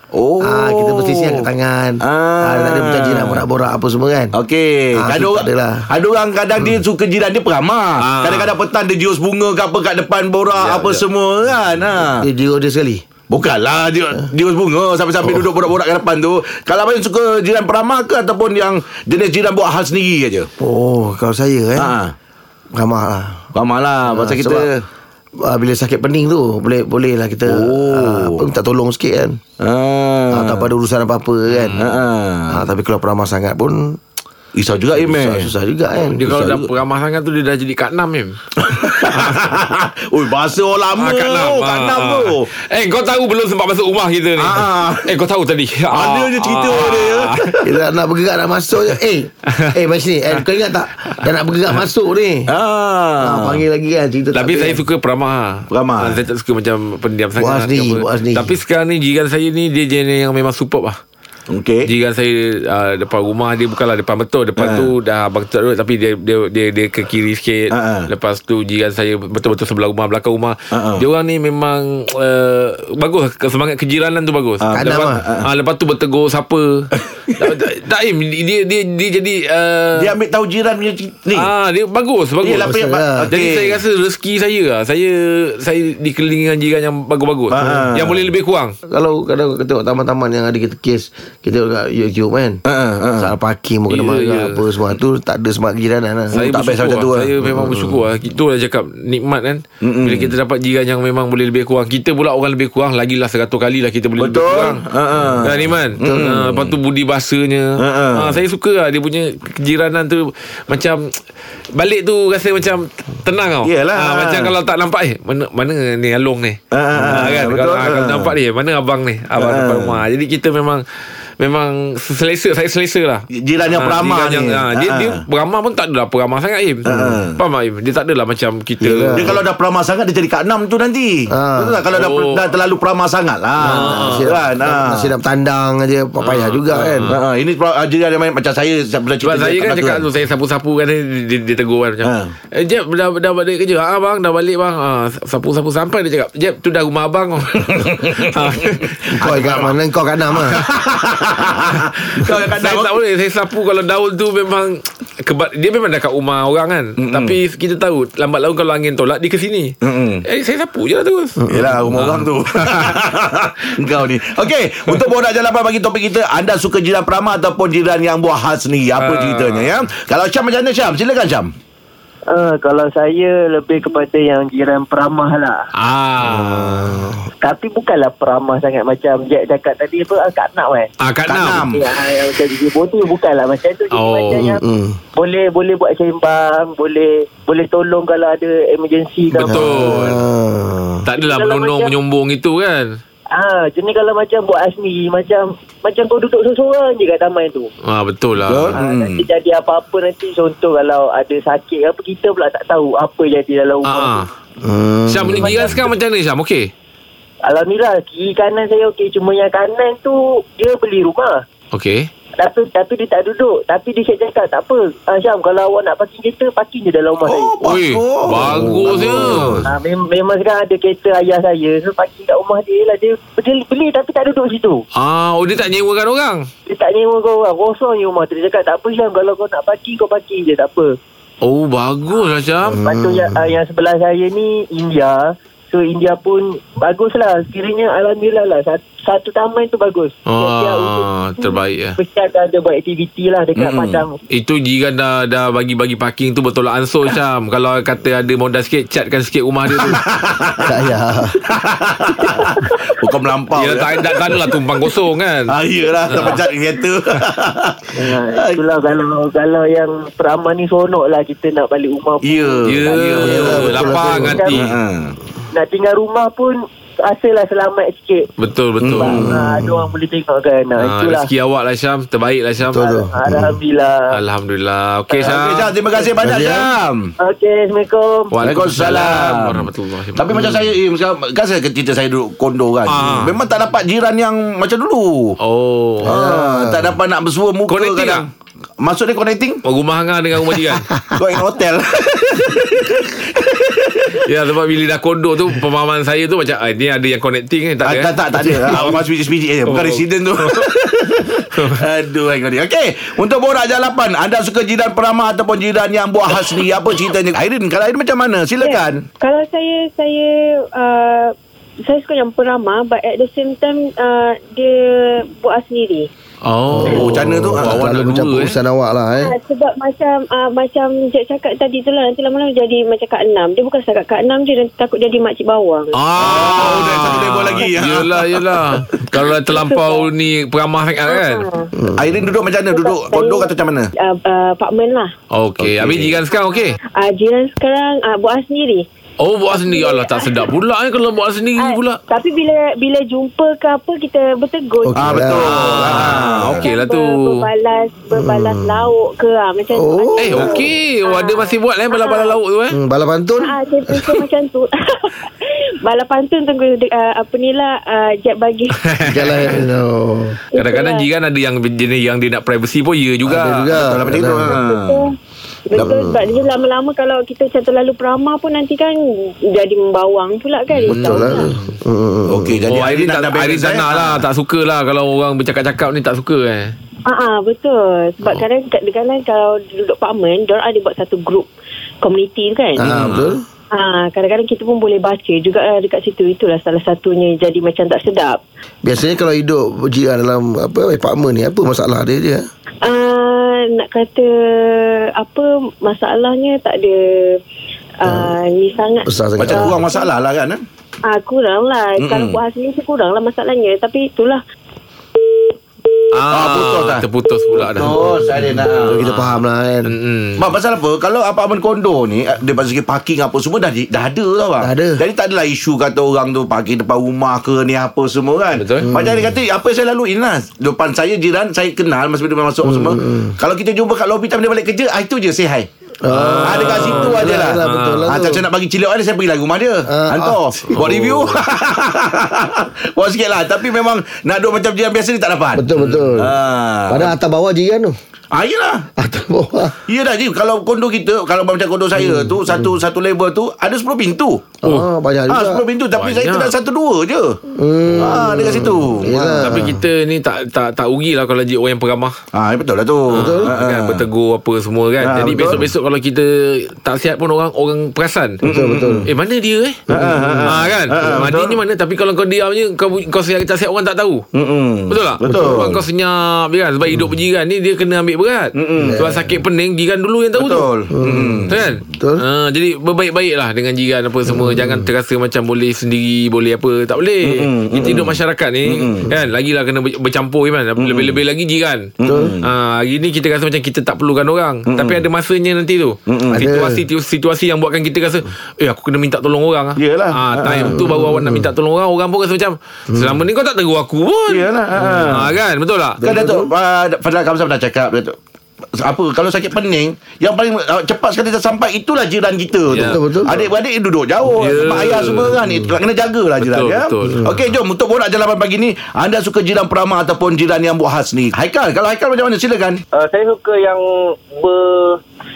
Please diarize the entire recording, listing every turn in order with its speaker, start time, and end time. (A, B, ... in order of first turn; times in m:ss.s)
0:00.1-0:01.5 A
0:00.4-0:04.3 B
0:02.0-0:03.4 A
0:04.3-0:12.3 A
0:05.0-0:05.9 B
0:08.0-0:08.5 C
0:10.5-0:11.0 C
0:12.2-0:13.0 B
0:13.3-0:20.5 A
0:20.6-0:21.9 B
0:21.8-0:22.1 A
0:22.8-0:23.5 B
0:23.6-0:24.8 A
0:24.1-0:24.7 B
0:25.4-0:29.4 B
0:27.5-0:28.4 A
0:29.6-0:30.7 A
0:30.3-0:31.8 B
0:31.5-0:32.0 C
0:31.8-0:32.7 A
0:32.5-0:34.0 B
0:34.6-0:35.5 A
0:35.0-0:36.3 B
0:36.2-0:38.4 C
0:36.2-0:36.7 A
0:38.6-0:42.5 A
0:39.1-0:39.5 C
0:41.0-0:47.6 C
0:44.4-0:45.1 A
0:45.9-0:47.5 A
0:47.6-0:52.5 B
0:49.5-0:49.8 C
0:52.5-0:53.6 A
0:53.2-0:54.8 B
0:54.3-1:01.0 C
0:55.7-0:56.2 A
0:57.4-0:58.6 B
1:01.5-1:01.9 A
1:01.9-1:16.9 C
1:04.6-1:04.9 A
1:07.7-1:08.1 A
1:10.7-1:11.1 A
1:14.6-1:15.5 A
1:14.7-1:15.2 B
1:17.0-1:17.5 A
1:17.4-1:20.1 C
1:20.0-1:21.5 A
1:21.3-1:22.7 C
1:22.4-1:23.8 A
1:22.6-1:23.3 B
1:23.3-1:28.8 C
1:27.5-1:28.3 A
1:28.9-1:32.6 B
1:32.6-1:33.3 A
1:33.2-1:36.4 B
1:33.9-1:34.7 C
1:36.3-1:37.3 A
1:36.3-1:44.8 C
1:37.5-1:37.9 B
1:39.8-1:40.3 A
1:44.2-1:46.7 A
1:45.4-1:51.2 C
1:47.8-1:48.4 A
1:51.8-2:00.8 C
1:53.6-1:54.5 A
1:56.7-1:58.3 A
1:59.4-2:00.0 A
2:01.4-2:09.4 C
2:03.3-2:05.2 A
2:06.9-2:07.4 A
2:06.9-2:07.2 B
2:08.8-2:09.4 B
2:09.1-2:15.1 A
2:11.3-2:11.8 B
2:11.9-2:12.4 C
2:13.6-2:14.4 C
2:13.6-2:17.1 B
2:16.2-2:17.2 C
2:17.1-2:20.1 A
2:19.2-2:29.0 C
2:22.0-2:22.3 A
2:27.6-2:29.7 A
2:29.2-2:30.6 B
2:30.4-2:33.0 A
2:32.2-2:43.0 C
2:37.0-2:37.4 A
2:39.8-2:40.2 A
2:41.5-2:41.8 B
2:41.5-2:51.5 A
2:49.0-2:49.8 C
2:52.3-2:55.6 D
2:55.8-2:57.1 C
2:56.4-2:57.2 B
2:57.4-3:00.9 D
3:01.0-3:01.7 C
3:01.3-3:01.8 A
3:01.7-3:04.6 D
3:03.9-3:04.5 C
3:04.3-3:05.0 B
3:05.2-3:09.9 D
3:09.3-3:10.2 C
3:09.5-3:11.0 B
3:11.0-3:13.0 C
3:11.2-3:11.9 D
3:13.3-3:17.7 D
3:17.8-3:18.8 C
3:18.4-3:19.3 A
3:18.7-3:24.2 D
3:23.8-3:24.3 C
3:24.6-3:25.6 B
3:25.1-3:26.7 C
3:25.3-3:25.8 D
3:27.4-3:31.4 D
3:31.7-3:32.1 C
3:32.4-3:37.6 D
3:37.2-3:39.6 A
3:37.6-3:39.7 C
3:38.9-3:44.8 D
3:44.9-3:46.5 C
3:46.7-3:51.0 D
3:51.4-3:52.8 C
3:52.7-4:04.2 D
3:52.7-3:53.5 B
4:00.2-4:02.0 C
4:03.6-4:04.0 A
4:04.3-4:10.0 C
4:09.7-4:10.8 A
4:10.6-4:11.4 B
4:11.4-4:14.6 A
4:13.5-4:15.6 C
4:15.5-4:18.6 A
4:16.1-4:16.4 C
4:18.0-4:24.6 D
4:22.2-4:23.2 A
4:22.6-4:24.7 C
4:23.2-4:24.4 B
4:24.5-4:25.2 A
4:25.5-4:28.3 D
4:28.4-4:29.2 C
4:28.8-4:29.3 A
4:29.0-4:31.3 D
4:29.1-4:29.9 B
4:30.8-4:32.9 C
4:32.7-4:33.6 B
4:32.8-4:34.1 D
4:34.1-4:35.7 C
4:35.2-4:37.1 A
4:36.2-4:36.7 B
4:37.2-4:38.3 D
4:38.3-4:40.6 C
4:38.4-4:45.4 A
4:42.8-4:43.4 C
4:45.4-4:46.3 C
4:46.0-4:48.3 A
4:46.1-4:47.0 B
4:47.7-4:48.3 C
4:48.8-4:49.6 A
4:49.6-4:50.9 C
4:51.2-4:54.1 A
4:54.3-4:59.1 C
4:57.8-5:09.0 A
4:59.6-5:00.7 C
5:01.5-5:01.8 C
5:08.6-5:11.3 E
5:11.9-5:16.1 E
5:16.4-5:18.6 C
5:16.8-5:19.4 B
5:16.8-5:17.9 A
5:19.2-5:26.8 E
5:25.9-5:31.5 C
5:26.2-5:29.0 A
5:29.5-5:30.1 E
5:31.1-5:31.7 E
5:31.8-5:32.1 B
5:32.0-5:33.9 A
5:32.7-5:35.1 E
5:35.3-5:36.8 C
5:35.6-5:36.2 A
5:36.9-5:38.8 E
5:39.2-5:42.0 C
5:39.5-5:40.5 E
5:41.6-5:52.4 E
5:44.8-5:45.7 B
5:45.0-5:46.6 A
5:45.3-5:47.5 C
5:48.1-5:48.9 B
5:49.7-5:50.6 B
5:50.2-5:52.8 C
5:52.7-5:54.0 B
5:53.4-5:58.8 E
5:58.8-5:59.6 C
5:59.1-6:00.4 B
6:00.5-6:01.1 E
6:00.6-6:03.8 C
6:03.3-6:04.6 B
6:03.8-6:05.1 A
6:04.4-6:05.1 E
6:05.7-6:11.5 E
6:05.7-6:06.2 A
6:10.7-6:11.8 C
6:10.9-6:12.6 B
6:12.3-6:14.2 A
6:12.7-6:16.7 C
6:17.1-6:21.5 E
6:22.0-6:23.0 E
6:22.8-6:23.4 B
6:22.8-6:23.4 C
6:23.7-6:28.4 E
6:28.8-6:32.5 B
6:32.8-6:37.4 E
6:38.0-6:40.1 E
6:38.0-6:38.3 B
6:39.1-6:39.8 B
6:39.4-6:40.6 A
6:41.1-6:44.4 E
6:42.0-6:42.4 A
6:46.1-6:48.4 C
6:46.3-6:47.0 A
6:47.6-6:49.0 A
6:48.3-6:49.9 B
6:49.0-6:50.6 C
6:50.4-7:05.7 A
6:54.6-6:55.0 B
6:58.5-6:58.9 C
6:58.9-6:59.4 B
7:02.6-7:03.4 B
7:06.0-7:08.4 B
7:06.1-7:08.1 C
7:06.4-7:17.1 A
7:09.9-7:11.1 B
7:10.7-7:11.4 C
7:15.6-7:16.4 B
7:16.9-7:18.0 B
7:18.3-7:18.9 A
7:19.0-7:19.8 B
7:19.9-7:24.6 A
7:22.0-7:22.8 B
7:24.6-7:24.9 C
7:24.6-7:25.6 B
7:25.3-7:27.4 A
7:25.9-7:26.6 C
7:27.6-7:29.8 B
7:28.0-7:29.2 A
7:29.3-7:32.2 C
7:32.3-7:34.1 A
7:33.1-7:38.4 C
7:33.2-7:33.5 B
7:35.0-7:35.7 A
7:38.4-7:39.1 B
7:38.4-7:39.1 A
7:39.1-7:39.8 C
7:39.9-7:41.6 A
7:39.9-7:40.6 B
7:40.4-7:44.3 C
7:44.3-7:45.8 A
7:44.9-7:50.7 C
7:45.3-7:45.7 B
7:48.6-7:49.1 A
7:48.8-7:49.2 B
7:50.4-7:51.6 A
7:50.9-7:52.2 B
7:51.5-8:14.5 C
7:54.3-7:54.8 B
7:57.2-7:59.1 A
8:00.8-8:01.2 A
8:02.0-8:02.4 A
8:02.1-8:02.4 B
8:04.7-8:05.0 A
8:06.1-8:06.5 A
8:06.3-8:06.8 B
8:09.8-8:10.8 A
8:10.7-8:11.5 B
8:12.9-8:13.2 B
8:14.3-8:15.3 A
8:14.8-8:15.2 B
8:15.0-8:16.1 C
8:16.0-8:16.5 B
8:16.0-8:18.2 A
8:18.8-8:32.8 A
8:22.7-8:23.1 C
8:22.8-8:23.4 B
8:24.2-8:25.4 C
8:26.4-8:27.2 C
8:27.1-8:27.4 B
8:33.0-8:35.0 F